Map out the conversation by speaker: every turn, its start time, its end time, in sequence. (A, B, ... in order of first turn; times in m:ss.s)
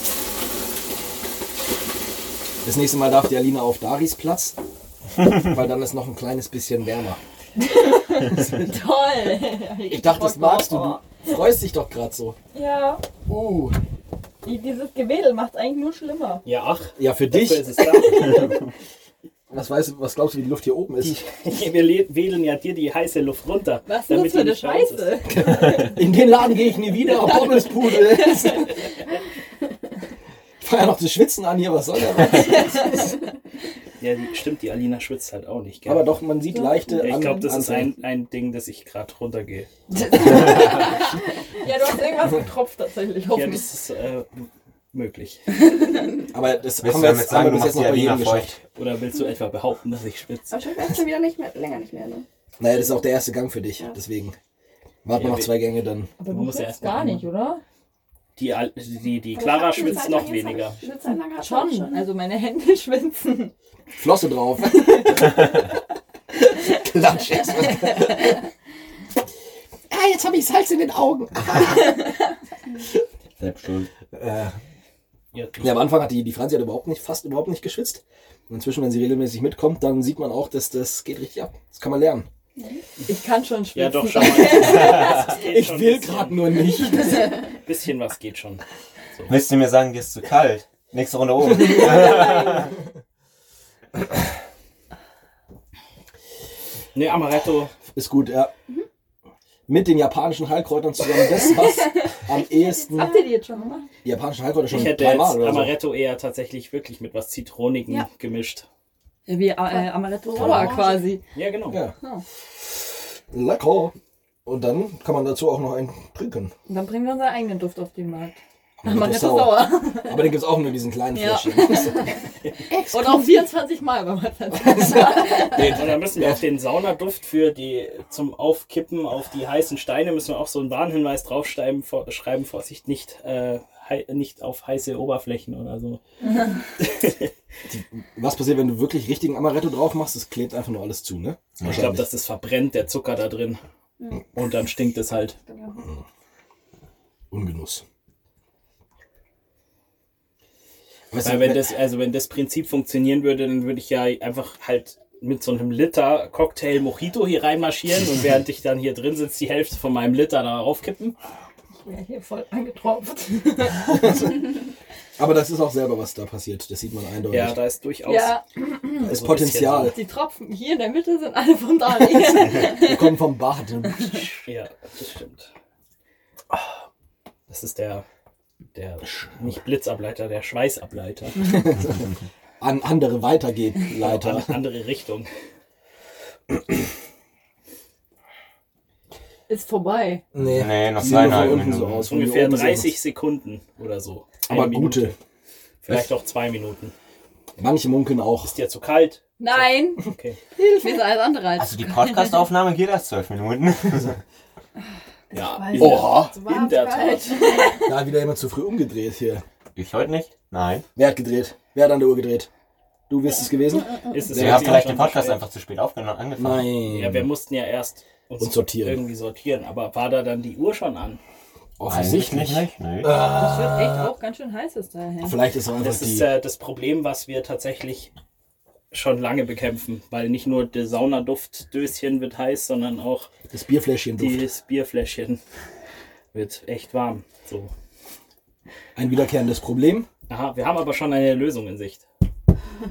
0:02.6-0:04.6 A
0:05.2-0:07.2 A
0:07.6-0:11.0 B
0:09.8-0:12.4 A
0:12.5-0:13.0 B
0:13.2-0:13.8 A
0:14.4-0:16.4 B
0:16.4-0:18.6 C
0:17.0-0:18.5 A
0:19.5-0:21.2 A
0:21.0-0:25.2 C
0:23.8-0:26.0 B
0:25.2-0:28.8 A
0:27.2-0:28.3 B
0:30.6-0:33.1 A
0:32.4-0:33.0 B
0:34.0-0:36.1 C
0:35.8-0:37.9 A
0:36.5-0:37.5 B
0:37.0-0:39.7 C
0:39.9-0:43.7 B
0:43.3-0:45.4 C
0:46.3-0:48.6 A
0:46.8-0:48.5 D
0:48.7-0:50.6 C
0:50.5-0:52.2 E
0:52.6-0:54.4 A
0:55.0-0:56.1 A
0:55.1-0:55.7 C
0:56.2-0:57.6 B
0:56.3-0:57.3 C
0:58.4-1:00.8 C
0:59.3-1:02.0 E
0:59.7-1:00.2 B
1:00.8-1:03.5 B
1:04.0-1:05.5 A
1:04.7-1:05.6 B
1:06.4-1:08.4 A
1:09.9-1:12.3 A
1:13.4-1:13.9 D
1:14.1-1:14.5 A
1:15.3-1:15.9 C
1:15.6-1:22.3 A
1:23.0-1:25.3 B
1:23.7-1:26.6 C
1:24.4-1:27.4 A
1:27.5-1:28.6 C
1:29.3-1:32.7 D
1:32.1-1:32.6 B
1:36.9-1:37.7 C
1:37.9-1:38.5 A
1:39.7-1:43.2 A
1:42.8-1:43.8 B
1:44.0-1:45.8 A
1:44.7-1:48.7 C
1:49.3-1:51.2 B
1:50.3-1:50.9 A
1:50.4-1:51.0 E
1:51.3-1:51.8 C
1:51.7-1:51.9 A
1:53.3-1:53.9 A
1:54.4-1:56.5 A
1:56.7-2:00.3 B
1:58.8-2:02.1 A
2:01.1-2:02.2 B
2:02.7-2:03.3 A
2:02.9-2:05.8 B
2:04.6-2:06.4 A
2:05.6-2:17.3 C
2:17.7-2:22.0 A
2:21.6-2:23.6 C
2:24.0-2:24.3 E
2:24.3-2:25.4 C
2:25.5-2:25.8 E
2:27.3-2:27.8 A
2:31.1-2:31.7 A
2:31.2-2:41.1 C
2:41.8-2:44.0 B
2:43.8-2:44.6 A
2:45.2-2:47.6 A
2:47.3-2:50.0 C
2:48.0-2:49.1 B
2:49.0-2:49.9 A
2:49.8-2:53.2 B
2:52.5-2:54.4 A
2:54.4-2:55.5 C
2:57.5-2:58.0 C
2:58.7-3:01.7 C
3:01.4-3:04.6 A
3:03.9-3:05.3 C
3:09.5-3:10.2 B
3:10.3-3:13.0 A
3:10.4-3:12.1 D
3:12.1-3:15.1 C
3:14.4-3:15.2 A
3:15.8-3:16.9 C
3:17.6-3:18.5 A
3:18.4-3:20.4 C
3:19.4-3:20.0 B
3:20.6-3:22.5 B
3:21.6-3:24.2 D
3:25.3-3:27.5 C
3:25.4-3:27.6 E
3:25.7-3:26.4 A
3:27.4-3:27.9 B
3:27.8-3:29.4 A
3:29.8-3:30.8 D
3:31.0-3:32.5 A
3:33.1-3:34.9 A
3:34.1-3:35.4 C
3:34.4-3:36.7 D
3:36.4-3:37.3 A
3:36.9-3:41.2 C
3:38.4-3:39.0 A
3:41.8-3:44.1 A
3:41.9-3:43.2 D
3:43.3-3:45.4 B
3:45.2-3:46.3 A
3:45.8-3:48.1 C
3:48.9-3:53.3 C
3:53.5-3:54.4 A
3:54.2-3:55.4 C
3:56.3-3:57.7 C
3:59.0-4:00.1 A
4:00.3-4:02.0 C